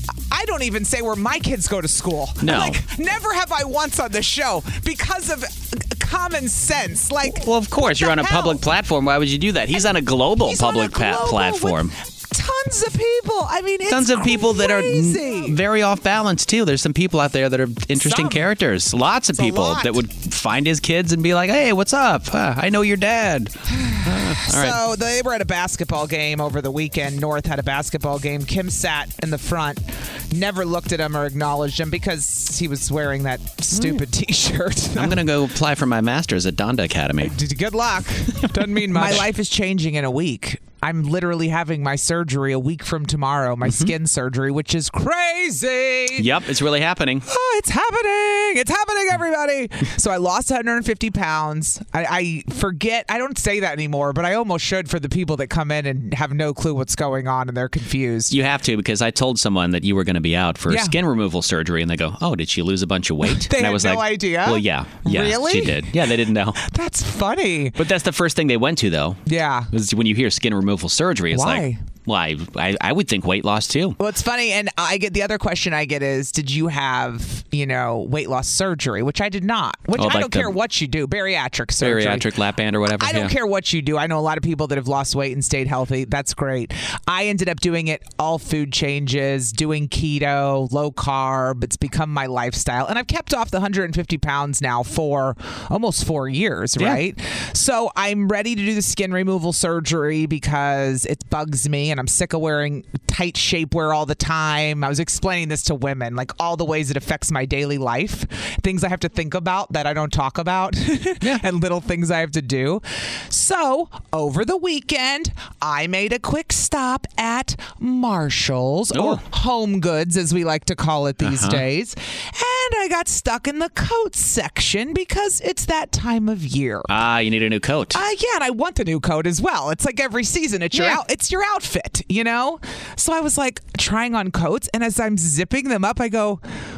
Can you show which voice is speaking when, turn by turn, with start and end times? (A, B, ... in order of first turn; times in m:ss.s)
0:00.3-0:08.6 A
0:02.4-0:02.8 B
0:07.3-0:11.9 B
0:10.4-0:15.6 A
0:13.9-0:24.8 B
0:17.9-0:18.5 A
0:19.3-0:20.0 A
0:23.7-0:35.2 A
0:33.7-0:34.0 B
0:35.0-0:37.3 B
0:37.2-0:46.3 A
0:38.8-0:39.3 B
0:43.6-0:43.9 B
0:46.1-0:47.2 B
0:47.3-0:58.4 A
0:58.3-1:06.6 B
1:00.7-1:01.0 A
1:03.2-1:07.8 A
1:07.8-1:14.0 B
1:09.2-1:09.7 A
1:11.3-1:11.8 A
1:14.0-1:22.3 A
1:20.0-1:20.5 B
1:21.8-1:23.3 B
1:23.0-2:06.9 A
1:58.9-1:59.2 B
2:01.2-2:01.6 B
2:06.9-2:08.0 B
2:07.9-2:16.4 A
2:10.7-2:11.0 B